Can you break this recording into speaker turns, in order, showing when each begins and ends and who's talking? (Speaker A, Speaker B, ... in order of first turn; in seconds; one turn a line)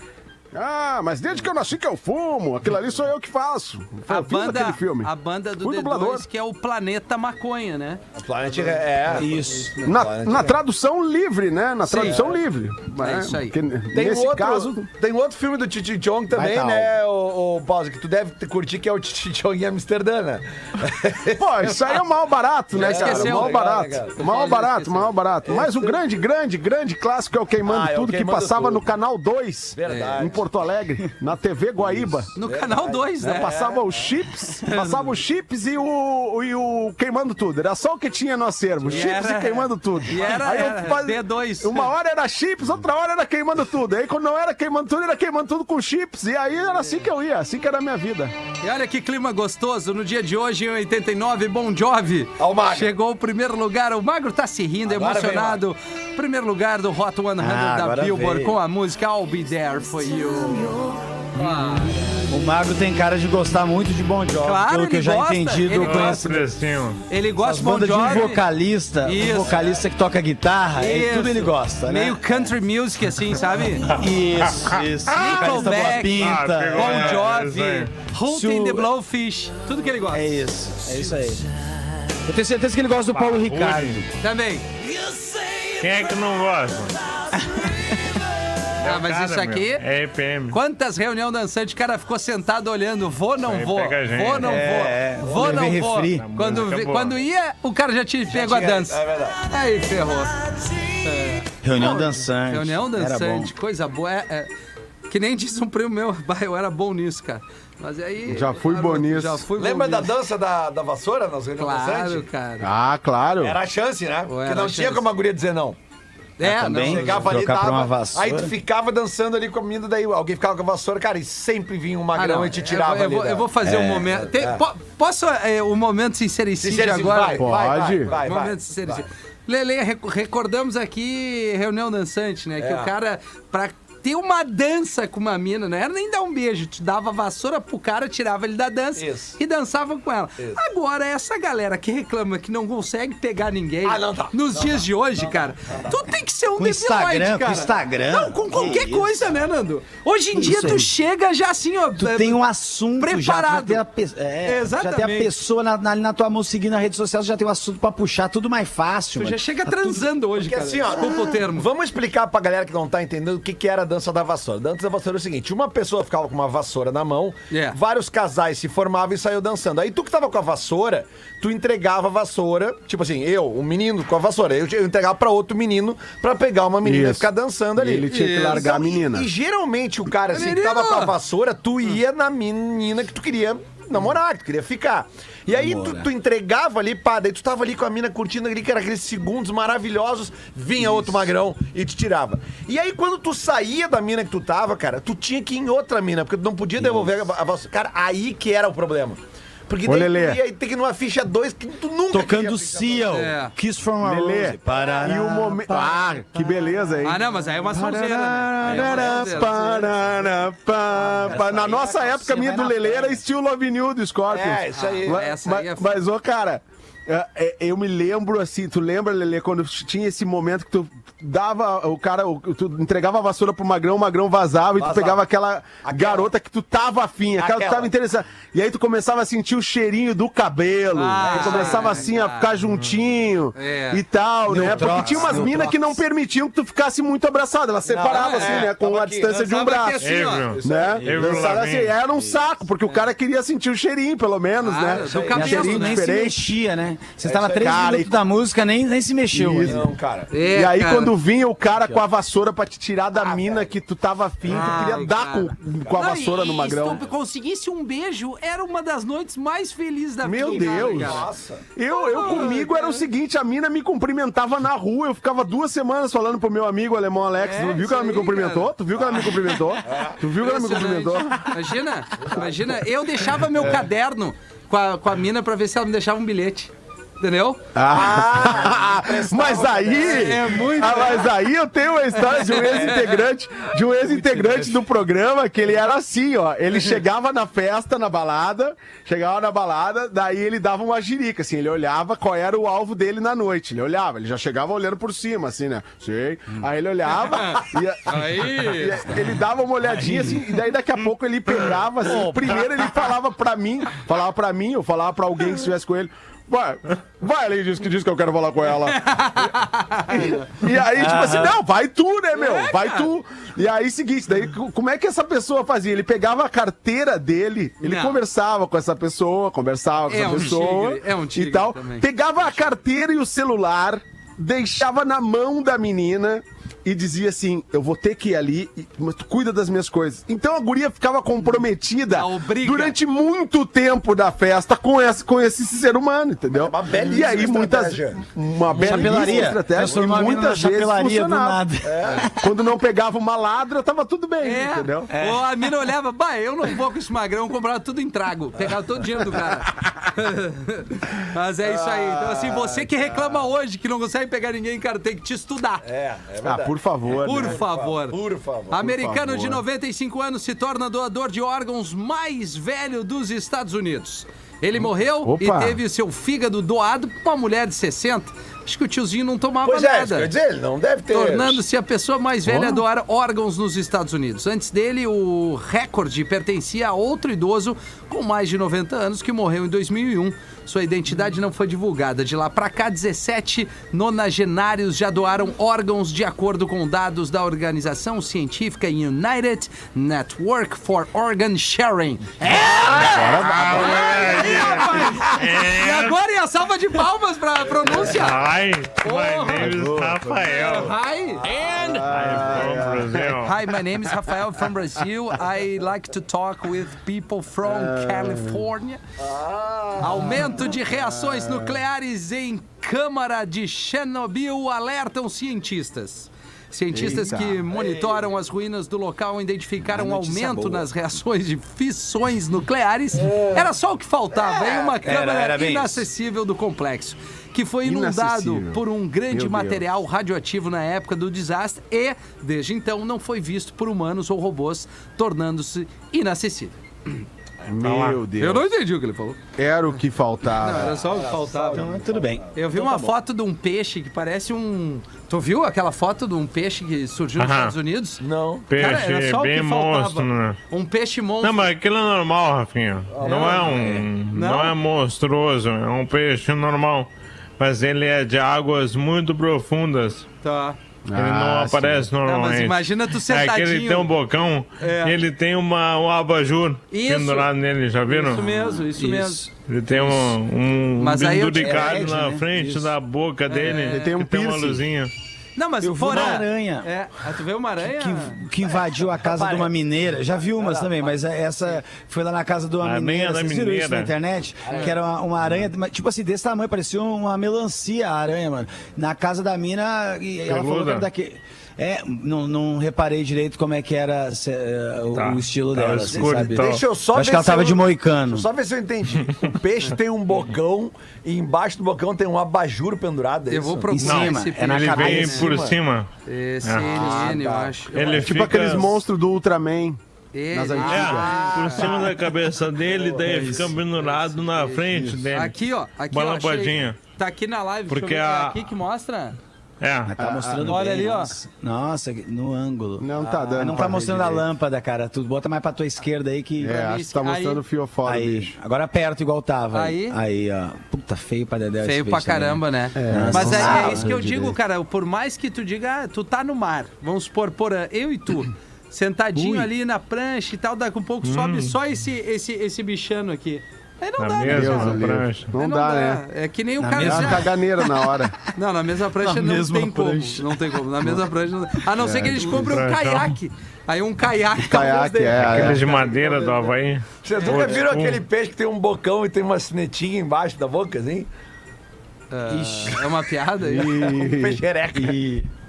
Speaker A: 0.5-6.2
Speaker B: 4.1-8.0
Speaker C: 8.2-10.6
Speaker B: 9.1-9.9
Speaker D: 9.1-9.7
Speaker A: 9.8-14.9
Speaker B: 11.8-12.2
Speaker C: 12.0-12.4
Speaker B: 13.0-13.6
Speaker C: 13.9-21.9
Speaker A: 16.3-16.9
Speaker A: 21.4-32.3
Speaker C: 22.7-24.2
Speaker B: 22.7-25.1
Speaker C: 25.4-26.0
Speaker C: 27.6-28.8
Speaker C: 29.7-30.4
Speaker B: 29.9-30.2
Speaker C: 31.8-34.1
Speaker B: 32.4-33.6
Speaker A: 33.2-48.3
Speaker B: 34.6-35.1
Speaker B: 38.9-41.9
Speaker B: 48.6-62.2
Speaker C: 52.4-52.9
Speaker C: 54.9-55.6
Speaker D: 57.4-58.6
Speaker D: 61.4-61.8
Speaker D: 62.3-66.4
Speaker B: 64.4-66.3
Speaker E: 65.7-67.0
Speaker B: 67.1-68.4
Speaker D: 67.4-72.4
Speaker B: 69.0-69.7
Speaker B: 70.8-73.9
Speaker D: 73.8-77.2
Speaker E: 74.5-77.9
Speaker B: 75.1-80.4
Speaker D: 78.2-78.9
Speaker D: 80.1-81.5
Speaker D: 82.2-84.1
Speaker E: 83.1-84.0
Speaker B: 84.2-84.6
Speaker E: 85.7-87.0
Speaker D: 87.3-87.9
Speaker E: 88.8-90.6
Speaker B: 88.8-89.8
Speaker B: 90.5-100.4
Speaker E: 93.4-94.6
Speaker D: 94.4-96.3
Speaker E: 96.1-97.2
Speaker C: 98.3-99.4
Speaker B: 101.0-104.5
Speaker D: 101.6-103.5
Speaker B: 105.1-110.1
Speaker A: 108.2-109.4
Speaker C: 109.5-112.2
Speaker B: 111.6-112.7
Speaker A: 112.6-113.6
Speaker C: 113.4-115.8
Speaker B: 114.3-115.1
Speaker B: 116.4-117.4
Speaker D: 116.4-118.5
Speaker C: 116.8-123.5
Speaker B: 122.1-127.5
Speaker D: 123.6-124.2
Speaker C: 124.2-124.6
Speaker C: 126.6-129.1
Speaker A: 127.4-128.1
Speaker B: 128.1-152.4
Speaker C: 132.6-132.9
Speaker C: 138.9-139.4
Speaker C: 143.8-146.0
Speaker D: 146.6-149.3
Speaker D: 150.3-150.9
Speaker D: 152.0-160.1
Speaker B: 153.0-153.8
Speaker B: 154.4-155.3
Speaker B: 159.2-161.7
Speaker C: 160.4-203.2
Speaker B: 167.5-167.8
Speaker A: 176.8-179.3
Speaker B: 178.1-178.7
Speaker B: 180.3-181.1
Speaker D: 185.5-186.1
Speaker A: 199.8-200.4
Speaker D: 202.1-206.1
Speaker B: 203.1-203.5
Speaker A: 204.0-240.0
Speaker C: 204.8-205.0
Speaker B: 207.0-209.8
Speaker C: 208.8-209.5
Speaker D: 210.9-213.2
Speaker C: 214.3-215.3
Speaker B: 214.7-216.0
Speaker C: 224.8-225.2
Speaker C: 225.8-226.3
Speaker C: 227.3-227.9
Speaker B: 230.9-232.5
Speaker C: 231.3-231.9
Speaker B: 233.5-234.0
Speaker D: 234.5-236.0
Speaker B: 234.7-235.4
Speaker C: 237.9-239.6
Speaker B: 237.9-238.7
Speaker B: 239.3-240.5
Speaker E: 240.0-241.9
Speaker C: 240.5-241.1
Speaker A: 240.6-246.5
Speaker D: 241.0-241.6
Speaker D: 242.1-242.4
Speaker B: 244.6-246.2
Speaker C: 245.0-245.5
Speaker D: 245.3-249.8
Speaker C: 247.2-247.9
Speaker A: 247.6-248.2
Speaker A: 249.3-257.0
Speaker C: 249.7-250.3
Speaker B: 250.3-251.1
Speaker D: 251.7-252.0
Speaker C: 253.1-253.7
Speaker B: 254.4-261.3
Speaker A: 260.2-271.5
Speaker C: 260.4-261.6
Speaker B: 261.9-263.0
Speaker B: 267.4-269.2
Speaker C: 269.9-270.2
Speaker B: 270.4-277.6
Speaker C: 272.2-272.7
Speaker A: 277.8-309.2
Speaker C: 277.9-280.4
Speaker B: 279.9-281.3
Speaker B: 282.2-283.2
Speaker B: 284.1-284.8
Speaker B: 297.4-299.2
Speaker D: 299.8-300.4
Speaker B: 308.9-310.4
Speaker A: 310.1-341.7
Speaker D: 310.9-311.6
Speaker B: 312.3-313.1
Speaker B: 317.8-318.2
Speaker B: 320.1-322.1
Speaker B: 332.1-333.0
Speaker C: 336.5-338.3
Speaker D: 338.7-342.3
Speaker C: 338.8-340.3
Speaker C: 341.8-342.3
Speaker A: 342.3-345.1
Speaker B: 344.4-355.8
Speaker D: 345.1-345.5
Speaker C: 351.6-353.2
Speaker C: 355.8-358.8
Speaker A: 356.4-357.6
Speaker B: 357.1-370.3
Speaker A: 358.7-359.6
Speaker A: 365.2-365.8
Speaker C: 369.6-371.6
Speaker B: 371.1-398.4
Speaker A: 372.4-372.8
Speaker A: 392.6-395.2
Speaker E: 393.3-396.2
Speaker E: 398.0-400.9
Speaker B: 399.0-399.7
Speaker A: 399.6-400.6
Speaker B: 400.5-401.6
Speaker C: 401.4-401.7
Speaker A: 401.7-403.4
Speaker E: 402.1-403.5
Speaker B: 403.4-409.0
Speaker A: 407.6-408.6
Speaker C: 409.2-410.4
Speaker B: 410.0-436.8
Speaker A: 410.6-411.7
Speaker A: 416.9-417.6
Speaker C: 417.7-418.3
Speaker D: 419.9-420.8
Speaker C: 424.5-425.0
Speaker D: 425.0-426.1
Speaker A: 427.8-429.9
Speaker A: 437.6-438.7
Speaker B: 437.9-439.4
Speaker A: 439.6-441.0
Speaker B: 440.6-441.9
Speaker C: 440.9-442.3
Speaker D: 441.7-443.1
Speaker B: 442.5-451.7
Speaker E: 447.4-447.7
Speaker C: 448.2-448.7
Speaker E: 448.7-450.6
Speaker E: 451.4-460.2
Speaker C: 453.1-453.9
Speaker B: 453.2-453.7
Speaker B: 454.3-454.7
Speaker B: 460.4-460.8
Speaker A: 461.1-462.1
Speaker E: 461.1-468.4
Speaker B: 462.2-464.1
Speaker B: 464.8-465.1
Speaker B: 466.9-467.5
Speaker B: 468.1-469.4
Speaker D: 468.3-469.5
Speaker E: 469.7-475.1
Speaker B: 471.0-472.1
Speaker D: 471.6-472.8
Speaker B: 473.5-474.1
Speaker A: 473.6-474.8
Speaker B: 475.6-478.4
Speaker D: 475.8-476.9
Speaker D: 477.8-498.5
Speaker C: 479.2-479.7
Speaker C: 480.6-481.0
Speaker E: 482.8-484.1
Speaker E: 490.5-491.1
Speaker E: 495.1-496.8
Speaker C: 496.1-503.9
Speaker B: 503.5-505.5
Speaker D: 503.9-505.7
Speaker E: 504.0-506.1
Speaker B: 506.2-508.4
Speaker E: 506.6-507.4
Speaker C: 507.0-507.7
Speaker E: 507.9-509.0
Speaker A: 508.0-510.0
Speaker B: 510.3-512.0
Speaker A: 510.5-512.0
Speaker E: 510.8-515.5
Speaker B: 513.2-519.4
Speaker E: 516.1-517.0
Speaker E: 517.9-518.6
Speaker E: 519.8-520.1
Speaker D: 520.1-526.8
Speaker A: 520.2-521.0
Speaker B: 520.6-521.3
Speaker A: 523.0-524.5
Speaker A: 526.6-528.5
Speaker B: 526.6-527.6
Speaker D: 528.0-534.1
Speaker B: 529.7-530.2
Speaker B: 531.8-545.0
Speaker A: 532.9-534.6
Speaker D: 539.3-539.7
Speaker E: 541.2-541.7
Speaker E: 544.2-545.5
Speaker A: 544.4-546.2
Speaker B: 545.5-547.5
Speaker D: 546.8-547.6
Speaker A: 547.0-548.4
Speaker B: 548.5-556.7
Speaker D: 549.2-550.6
Speaker A: 551.9-552.8
Speaker E: 552.5-553.3
Speaker A: 554.6-555.8
Speaker E: 555.4-558.2
Speaker C: 557.2-561.3
Speaker B: 557.4-557.6
Speaker B: 562.3-564.1
Speaker D: 562.5-563.0
Speaker A: 563.6-564.6
Speaker C: 564.1-565.2
Speaker D: 564.9-565.5